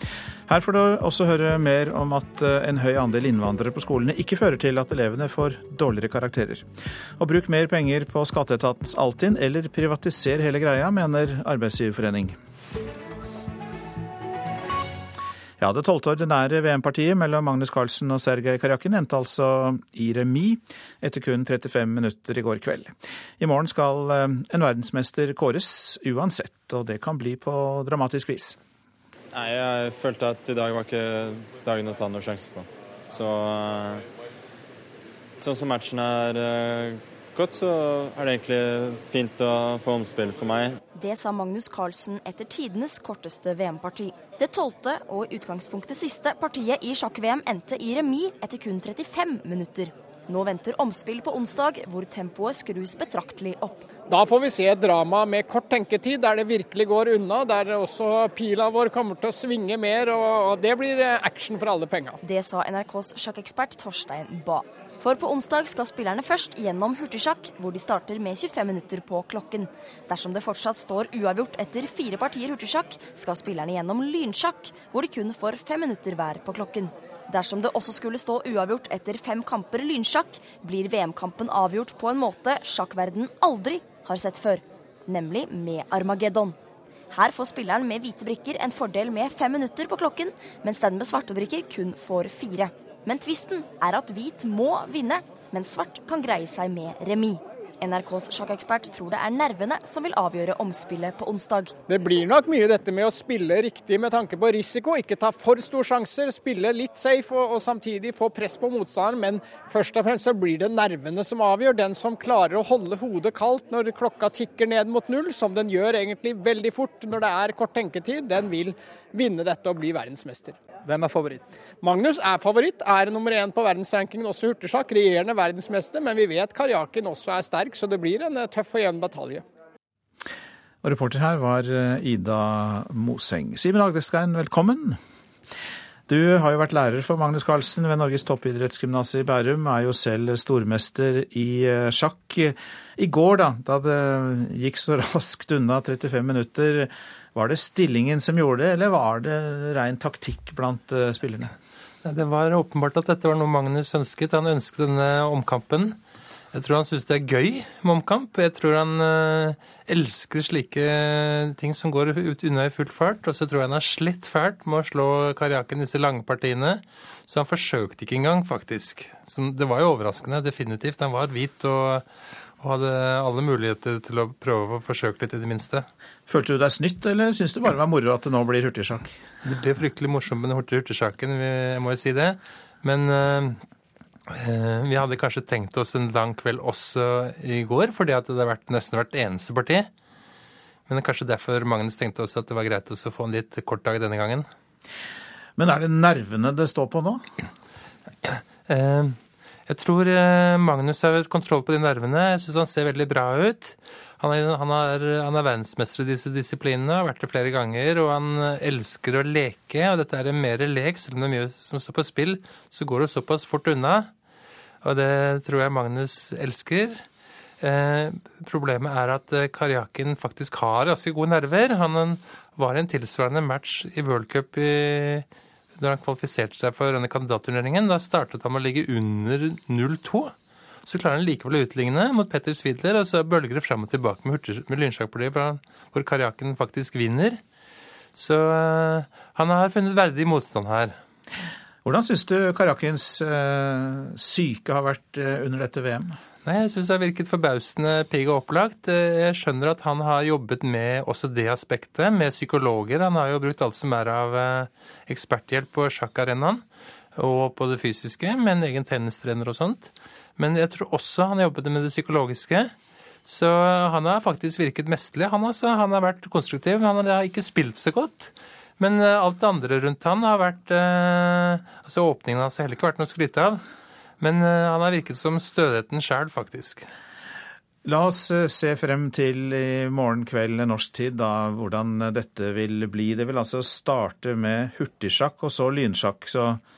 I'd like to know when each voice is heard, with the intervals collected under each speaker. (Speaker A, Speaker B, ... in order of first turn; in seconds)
Speaker A: 0.5-6.7, 7.2-12.4, 15.6-28.6, 130.8-135.0, 136.1-151.5, 176.3-179.1, 195.6-197.3, 241.8-246.2, 277.9-286.6
Speaker B: 29.3-34.1, 35.4-40.8
Speaker C: 41.0-53.9, 62.2-86.6, 87.1-101.7
Speaker D: 54.1-62.2, 101.9-120.6, 121.8-129.4
Speaker E: 152.0-156.0, 156.5-172.1, 172.6-175.9, 179.4-183.6, 184.3-189.9, 190.9-194.5, 198.3-214.1, 214.8-217.1, 217.6-230.3, 230.8-237.4, 238.2-241.0, 246.4-256.6, 257.2-262.7, 263.2-273.6, 274.2-276.9